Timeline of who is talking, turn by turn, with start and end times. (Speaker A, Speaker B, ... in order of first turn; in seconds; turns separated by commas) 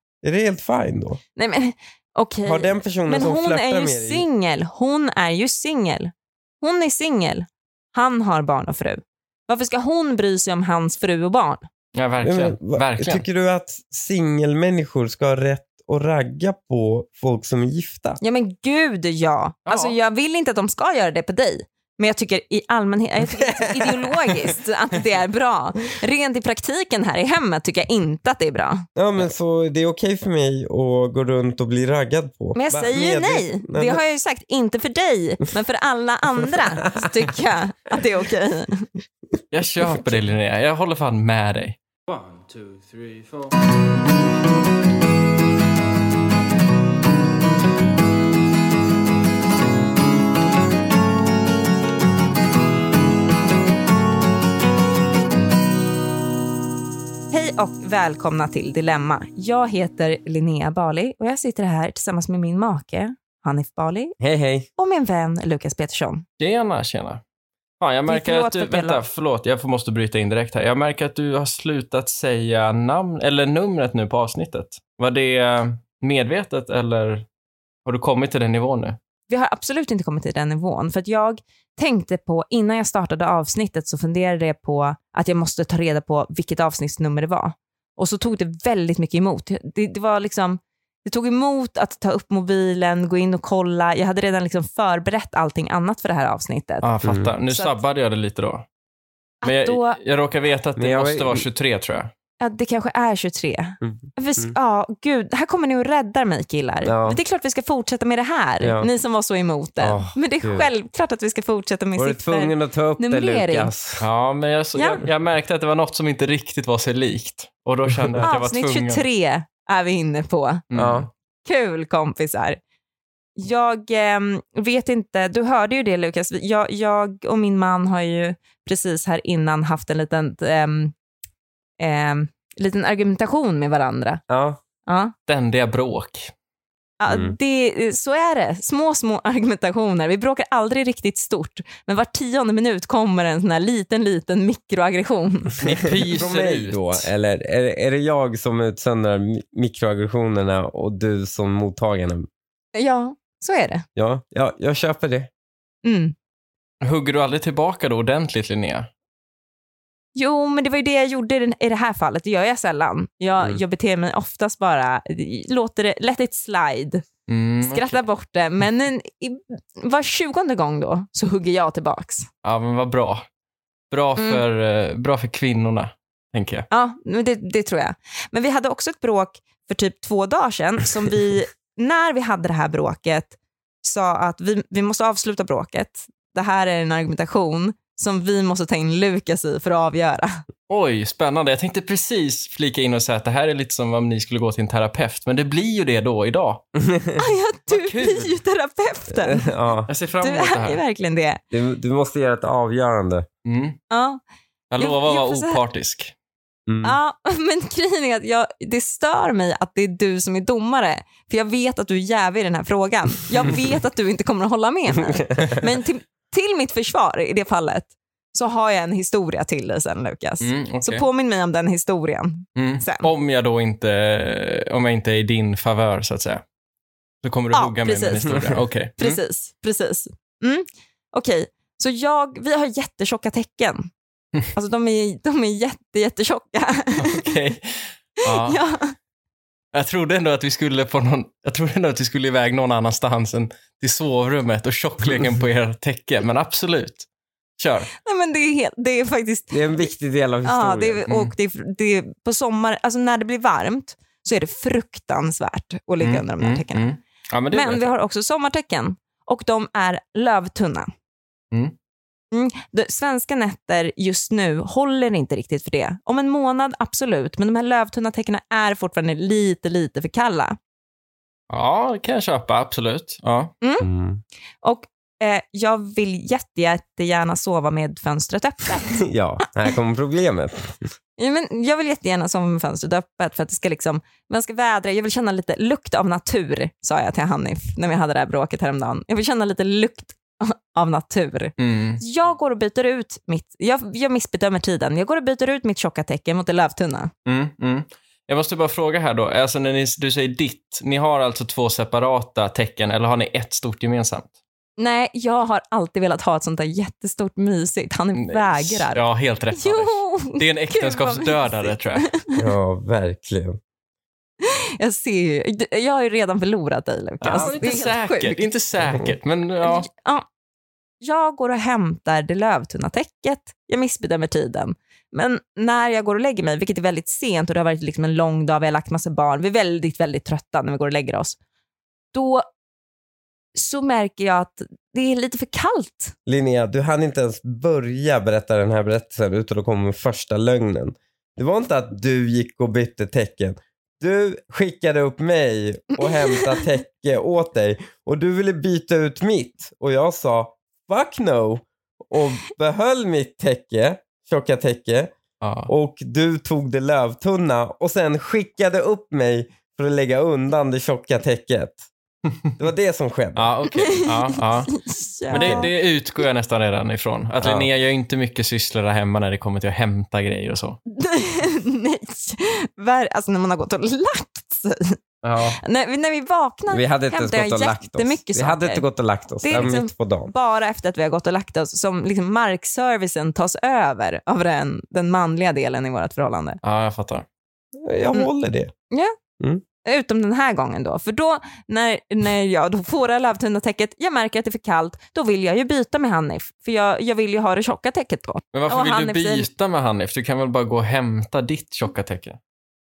Speaker A: 0.2-1.2, Speaker B: 1.4-11.6, Speaker A: 2.4-4.2, Speaker C: 11.9-13.2, Speaker A: 12.2-18.2, Speaker B: 18.2-28.9, Speaker C: 19.7-19.9, Speaker A: 23.6-24.1, Speaker A: 28.9-34.0, Speaker B: 32.5-38.9, Speaker C: 39.5-43.5, Speaker B: 57.3-64.1, Speaker A: 64.2-64.7, Speaker B: 64.8-66.2, Speaker C: 66.4-67.2, Speaker C: 67.8-77.2, Speaker B: 68.1-69.0, Speaker C: 77.8-79.0, Speaker B: 79.3-96.9, Speaker C: 96.8-98.7, Speaker A: 97.0-97.3, Speaker B: 97.5-97.7, Speaker B: 99.4-100.0, Speaker C: 99.4-102.1, Speaker A: 100.8-101.5, Speaker B: 102.4-113.7, Speaker A: 103.8-104.5, Speaker A: 106.8-107.2, Speaker A: 108.6-108.9, Speaker A: 109.8-110.7, Speaker A: 112.0-114.1, Speaker C: 114.0-119.0, Speaker B: 114.8-115.0, Speaker A: 117.9-118.3, Speaker B: 118.2-120.6, Speaker C: 120.7-121.1, Speaker A: 120.7-121.1, Speaker B: 121.4-122.6, Speaker B: 123.3-130.9, Speaker B: 131.8-134.2, Speaker A: 134.3-134.6, Speaker B: 134.8-135.1, Speaker C: 135.3-136.3, Speaker B: 137.0-145.6, Speaker A: 137.1-137.4, Speaker C: 145.6-147.1, Speaker A: 145.8-152.3, Speaker B: 152.7-153.8, Speaker A: 153.9-155.3, Speaker B: 155.8-156.1, Speaker C: 156.8-158.9, Speaker B: 160.1-167.1, Speaker C: 167.3-168.0, Speaker B: 167.6-172.3, Speaker C: 172.4-173.2, Speaker C: 173.9-176.7, Speaker B: 174.2-174.4, Speaker B: 176.7-190.4, Speaker C: 190.7-196.6, Speaker A: 196.8-197.2, Speaker B: 197.2-199.5, Speaker C: 197.7-198.4, Speaker A: 199.1-199.9, Speaker C: 199.9-200.8, Speaker B: 200.2-201.4, Speaker A: 201.5-203.3, Speaker C: 203.4-203.8, Speaker B: 203.9-204.2, Speaker C: 204.7-206.1, Speaker B: 204.8-205.6, Speaker A: 206.7-207.0, Speaker B: 206.8-223.1, Speaker A: 215.1-215.7, Speaker C: 220.4-221.1, Speaker C: 222.6-226.4, Speaker C: 227.2-229.2, Speaker B: 227.5-233.9, Speaker A: 228.3-228.6, Speaker B: 234.5-237.3, Speaker C: 237.0-238.6, Speaker B: 238.3-238.9, Speaker C: 239.7-247.1, Speaker C: 247.6-247.9, Speaker B: 248.0-249.9, Speaker A: 249.5-251.0, Speaker B: 250.4-256.9, Speaker C: 256.0-257.9, Speaker B: 257.5-260.9, Speaker B: 262.3-270.6, Speaker C: 271.5-273.5, Speaker B: 273.6-273.9, Speaker A: 273.8-274.2, Speaker B: 274.6-279.0, Speaker A: 279.0-280.9, Speaker B: 281.2-297.1, Speaker C: 291.6-292.0, Speaker C: 297.2-304.3, Speaker B: 304.8-309.0, Speaker C: 308.1-312.1, Speaker B: 309.5-312.4, Speaker A: 312.3-313.6, Speaker B: 314.4-318.5, Speaker C: 317.2-319.9, Speaker A: 318.8-319.1, Speaker B: 319.6-320.3, Speaker B: 321.0-331.4, Speaker B: 332.1-332.4, Speaker B: 333.5-336.1, Speaker A: 336.2-355.1, Speaker B: 346.0-346.7, Speaker C: 355.4-355.7, Speaker A: 355.7-361.8, Speaker A: 362.6-363.6, Speaker C: 363.4-370.8, Speaker B: 363.7-365.7, Speaker A: 365.3-365.7, Speaker A: 367.4-367.7, Speaker B: 370.9-378.8, Speaker C: 375.2-375.6, Speaker A: 376.7-380.3, Speaker B: 379.4-386.6, Speaker C: 386.6-387.2, Speaker A: 387.8-388.7, Speaker B: 389.8-399.5, Speaker C: 398.5-402.4